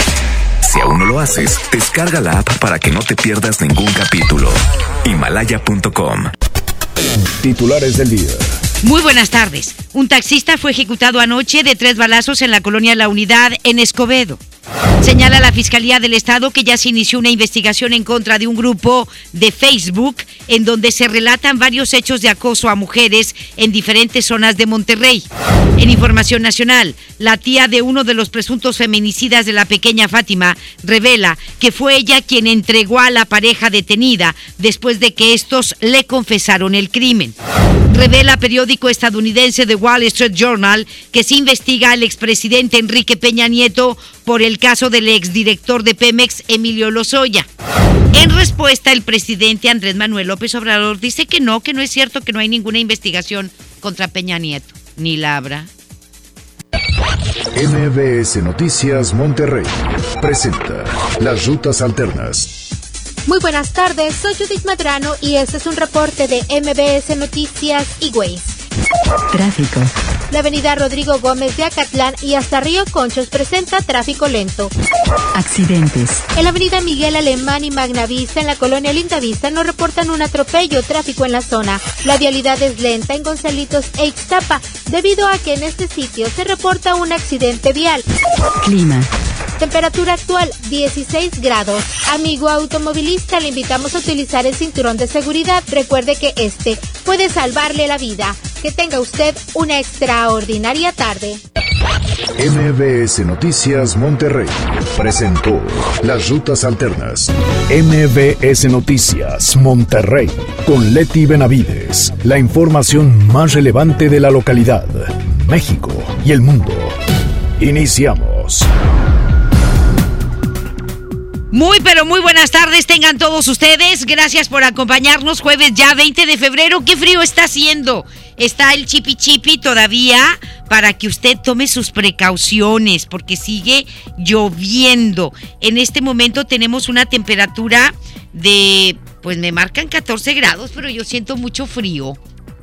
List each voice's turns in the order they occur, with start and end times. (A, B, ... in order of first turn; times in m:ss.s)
0:00.6-0:06.3 A
0:07.3-0:08.5 B
0:08.8-0:14.4 C
0:15.0-0:37.4 C
0:37.9-0:47.5 C
0:48.1-0:55.7 C
0:57.6-1:02.5 B
1:03.3-1:08.6 D
1:09.3-1:09.9 E
1:10.3-1:14.7 D
1:15.4-1:16.2 E
1:16.4-1:28.0 D
1:28.6-1:29.1 E
1:29.6-1:41.4 D
1:42.4-1:57.0 B
1:57.6-1:58.7 B
2:01.5-2:22.2 C